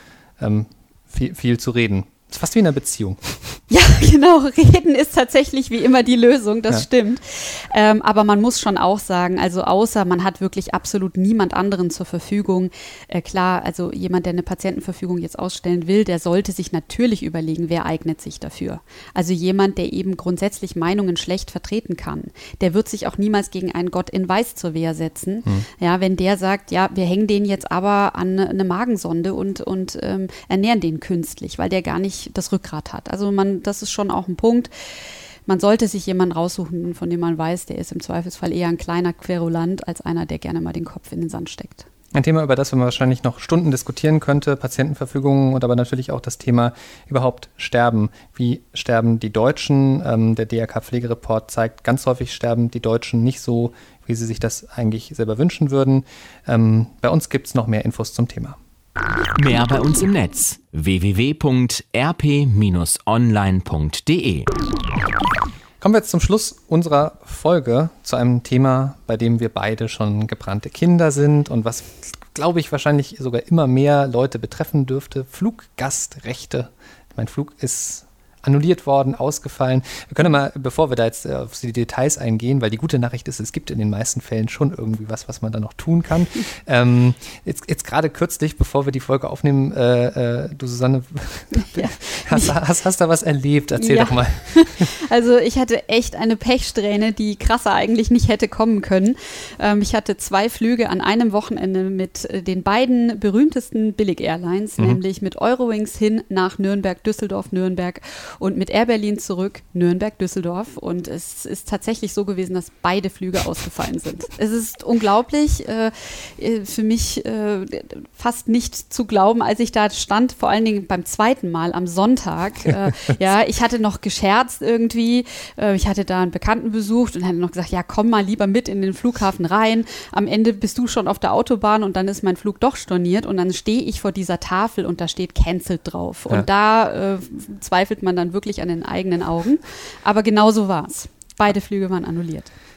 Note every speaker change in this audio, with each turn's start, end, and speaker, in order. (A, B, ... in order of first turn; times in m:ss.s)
0:00.4-0:03.6 A
0:03.7-0:34.7 B
0:35.5-0:41.9 B
0:42.1-0:58.6 A
0:59.3-1:04.5 C
1:05.8-1:34.9 A
1:31.5-1:32.6 B
1:33.8-2:22.5 B